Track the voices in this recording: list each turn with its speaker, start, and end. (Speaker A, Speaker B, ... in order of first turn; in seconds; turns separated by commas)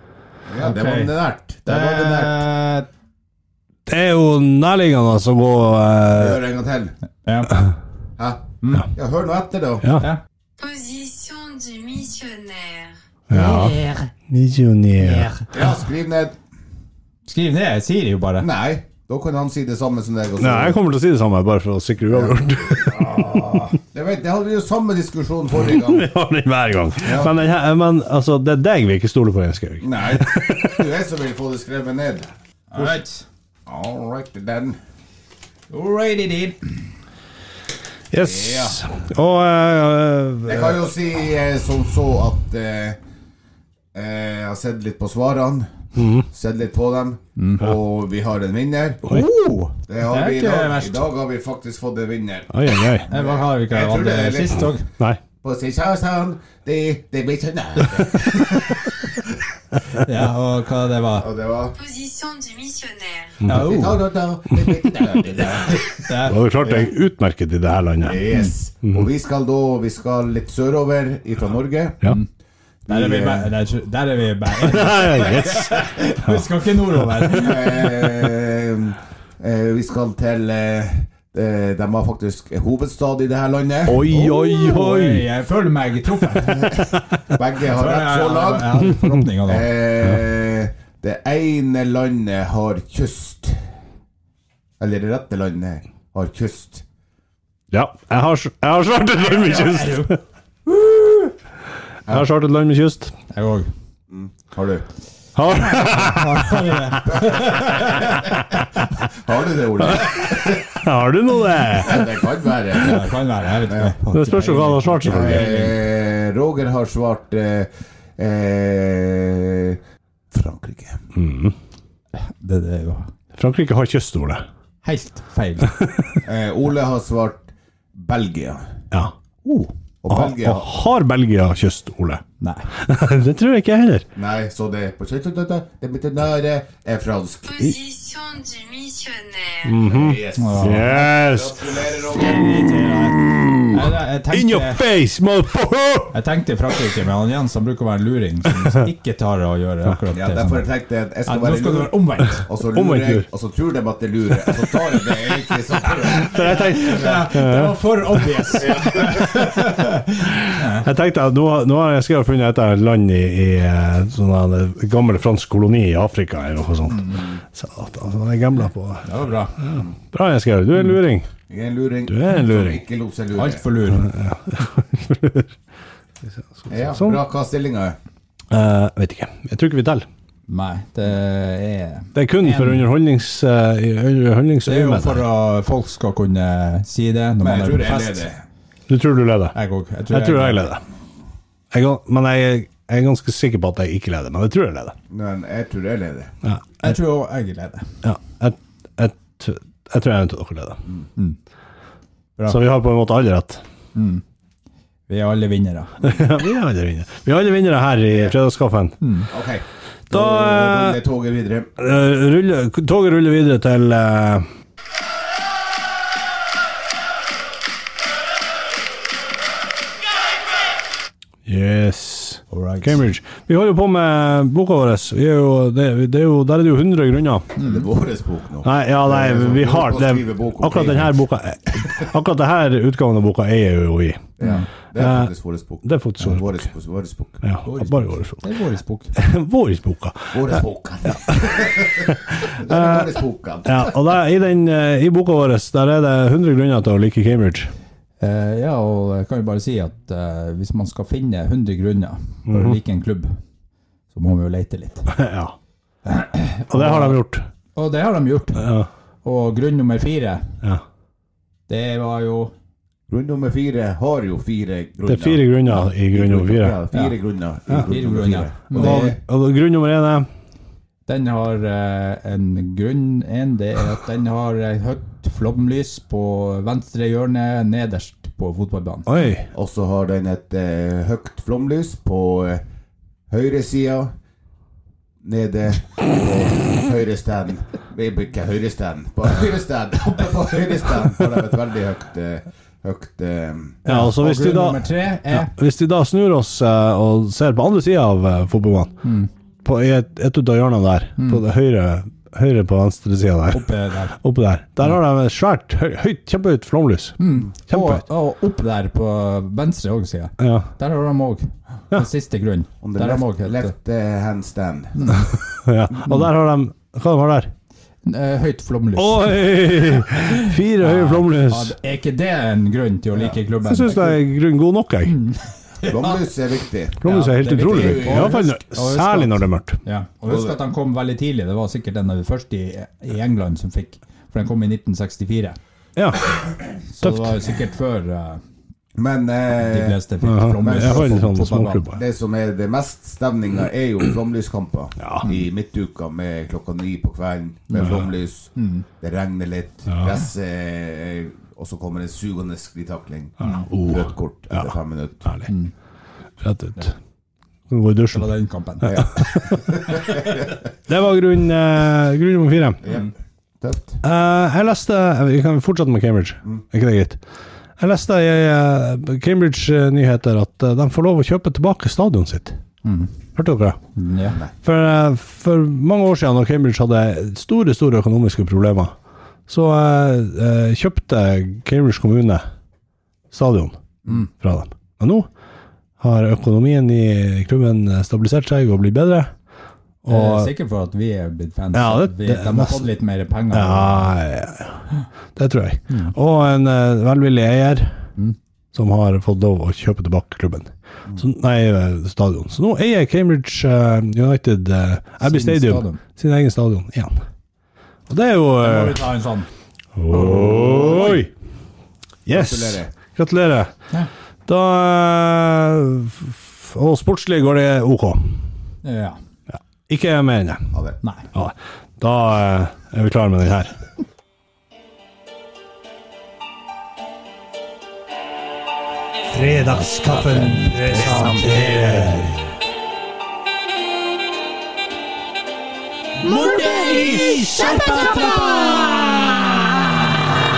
Speaker A: 0.5-2.5, Speaker B: 0.6-1.1, Speaker B: 1.6-2.9, Speaker C: 3.9-6.4, Speaker A: 6.1-6.9, Speaker B: 7.2-7.6, Speaker A: 8.2-9.8, Speaker B: 8.6-8.9, Speaker C: 9.8-10.1, Speaker B: 9.9-10.2, Speaker D: 10.6-12.9, Speaker C: 13.3-13.7, Speaker B: 13.3-14.1, Speaker C: 14.3-15.3, Speaker B: 15.0-15.5, Speaker A: 15.5-16.4, Speaker B: 17.2-18.5, Speaker A: 18.4-20.8, Speaker C: 20.4-23.1, Speaker A: 22.1-23.2, Speaker B: 22.9-23.7, Speaker A: 23.8-26.1, Speaker C: 25.7-30.8, Speaker A: 27.0-27.3, Speaker A: 29.8-33.0, Speaker B: 32.7-33.2, Speaker A: 33.6-34.8, Speaker B: 35.7-36.8, Speaker C: 38.1-40.8, Speaker A: 38.2-38.8, Speaker A: 40.4-43.0, Speaker A: 43.9-49.0, Speaker C: 46.0-46.2, Speaker B: 47.4-47.6, Speaker B: 49.1-51.0, Speaker A: 49.9-54.7, Speaker C: 52.5-53.1, Speaker B: 53.1-54.9, Speaker A: 55.4-59.4, Speaker B: 60.0-61.3, Speaker A: 61.2-61.8, Speaker D: 61.7-63.4, Speaker C: 63.4-63.7, Speaker B: 63.4-64.0, Speaker A: 63.5-65.9, Speaker B: 65.6-66.4, Speaker C: 66.2-68.2, Speaker A: 66.6-66.9, Speaker A: 68.0-72.0, Speaker A: 72.8-73.5, Speaker B: 72.9-78.2, Speaker C: 74.6-76.3, Speaker A: 77.3-84.1, Speaker C: 83.9-85.2, Speaker B: 84.1-86.8, Speaker A: 86.5-88.8, Speaker B: 87.7-89.7, Speaker A: 89.4-93.6, Speaker A: 94.8-96.8, Speaker C: 97.7-100.2, Speaker B: 99.2-100.1, Speaker B: 100.8-101.2, Speaker C: 102.1-103.1, Speaker B: 103.3-103.7, Speaker A: 104.1-104.9, Speaker C: 105.3-107.5, Speaker B: 105.6-108.1, Speaker A: 107.1-110.8, Speaker C: 109.9-112.1, Speaker A: 111.7-113.1, Speaker B: 112.7-115.8, Speaker A: 113.6-113.9, Speaker C: 114.1-115.6, Speaker A: 115.0-121.0, Speaker C: 121.1-121.5, Speaker B: 122.1-123.1, Speaker C: 123.3-124.4, Speaker B: 124.8-125.7, Speaker C: 125.7-126.2, Speaker A: 126.2-128.7, Speaker B: 129.4-129.7, Speaker A: 130.0-130.7, Speaker C: 130.1-132.2, Speaker B: 132.4-132.7, Speaker C: 132.8-134.1, Speaker A: 134.1-137.6, Speaker D: 137.4-139.8, Speaker C: 139.7-141.7, Speaker A: 139.8-142.5, Speaker B: 140.3-141.1, Speaker B: 142.1-144.8, Speaker C: 143.2-143.7, Speaker C: 144.3-146.1, Speaker B: 146.1-150.7, Speaker A: 150.1-151.9, Speaker B: 151.2-152.4, Speaker A: 152.4-157.1, Speaker C: 152.7-153.2, Speaker C: 154.4-154.7, Speaker C: 156.0-157.7, Speaker B: 156.3-160.9, Speaker A: 158.6-159.2, Speaker C: 160.2-169.1, Speaker B: 166.9-167.2, Speaker B: 169.0-169.6, Speaker C: 169.6-171.3, Speaker A: 171.5-173.6, Speaker C: 172.1-172.8, Speaker B: 173.3-174.1, Speaker C: 174.0-175.5, Speaker C: 176.4-177.2, Speaker A: 176.7-178.0, Speaker C: 178.5-180.1, Speaker B: 180.5-182.9, Speaker C: 182.1-185.2, Speaker B: 184.6-188.2, Speaker A: 187.4-188.4, Speaker C: 188.9-189.5, Speaker B: 189.5-190.7, Speaker C: 190.1-190.8, Speaker C: 191.7-194.9, Speaker A: 195.1-196.3, Speaker C: 196.4-196.8, Speaker B: 196.8-197.9, Speaker C: 198.0-200.8, Speaker C: 202.5-203.6, Speaker B: 203.9-204.2, Speaker B: 205.1-206.0, Speaker C: 206.0-208.9, Speaker B: 209.0-209.3, Speaker A: 209.3-211.7, Speaker C: 210.1-211.0, Speaker C: 211.8-214.4, Speaker C: 221.4-227.5, Speaker B: 222.5-223.0, Speaker B: 227.6-227.8, Speaker A: 227.6-231.1, Speaker C: 228.6-234.3, Speaker A: 234.4-237.4, Speaker B: 234.4-234.7, Speaker C: 235.0-235.3, Speaker C: 235.8-236.6, Speaker C: 237.4-238.4, Speaker B: 237.6-239.1, Speaker C: 239.2-240.6, Speaker A: 240.3-244.0, Speaker C: 241.1-247.7, Speaker B: 248.2-253.3, Speaker C: 252.5-252.8, Speaker B: 254.1-255.1, Speaker C: 255.1-255.5, Speaker B: 256.0-257.2, Speaker C: 256.7-257.4, Speaker B: 257.7-258.7, Speaker C: 258.6-258.9, Speaker B: 259.2-260.6, Speaker B: 261.7-262.5, Speaker A: 263.1-269.2, Speaker C: 265.1-266.8, Speaker B: 267.9-269.1, Speaker C: 268.7-270.3, Speaker B: 271.1-279.1, Speaker C: 279.1-279.5, Speaker A: 279.5-282.6, Speaker A: 283.3-284.1, Speaker A: 285.2-293.8, Speaker B: 293.8-295.5, Speaker C: 293.9-298.9, Speaker B: 299.0-299.3, Speaker C: 299.6-308.0, Speaker B: 301.2-301.4, Speaker B: 303.5-304.2, Speaker B: 307.2-313.7, Speaker C: 310.4-310.7, Speaker A: 312.8-315.2, Speaker B: 314.9-315.3, Speaker C: 315.5-317.5, Speaker B: 318.1-319.6, Speaker C: 319.0-321.7, Speaker B: 320.1-324.2, Speaker C: 323.6-325.1, Speaker B: 325.0-326.2, Speaker A: 325.8-327.0, Speaker C: 327.0-329.8, Speaker B: 327.0-335.6, Speaker A: 327.6-328.5, Speaker A: 330.2-330.6, Speaker C: 335.9-336.3, Speaker B: 336.9-338.4, Speaker C: 337.0-337.4, Speaker A: 338.9-340.0, Speaker B: 339.5-341.8, Speaker C: 340.2-342.0, Speaker A: 340.6-341.3, Speaker A: 341.9-355.3, Speaker C: 345.0-345.2, Speaker B: 348.6-348.8, Speaker C: 353.4-355.5, Speaker B: 353.4-353.6, Speaker B: 355.5-355.7, Speaker C: 356.4-356.9, Speaker C: 357.7-358.3, Speaker B: 358.1-359.0, Speaker C: 358.8-362.8, Speaker A: 358.8-360.4, Speaker A: 362.8-363.1, Speaker A: 363.6-364.0, Speaker C: 364.0-367.2, Speaker C: 367.8-372.6, Speaker B: 372.8-373.1, Speaker C: 373.4-373.8, Speaker B: 373.9-374.4, Speaker C: 374.6-378.9, Speaker C: 379.5-382.4, Speaker C: 383.3-383.8, Speaker C: 384.3-385.3, Speaker C: 386.0-389.3, Speaker C: 390.0-390.5, Speaker B: 390.1-394.1, Speaker C: 391.7-392.9, Speaker C: 393.5-394.8, Speaker C: 395.4-397.9, Speaker C: 398.7-407.1, Speaker B: 405.2-406.0, Speaker C: 408.1-409.1, Speaker B: 408.6-409.5, Speaker C: 409.9-411.3, Speaker A: 410.1-411.2, Speaker C: 412.2-413.7, Speaker A: 412.3-412.9, Speaker C: 414.5-418.4, Speaker B: 418.8-419.2, Speaker C: 419.5-420.8, Speaker A: 420.7-421.0, Speaker B: 421.0-421.3, Speaker C: 421.3-423.7, Speaker C: 429.3-432.4, Speaker B: 429.9-432.4, Speaker A: 430.9-431.6, Speaker B: 436.2-439.1, Speaker A: 436.2-438.8, Speaker C: 436.6-438.9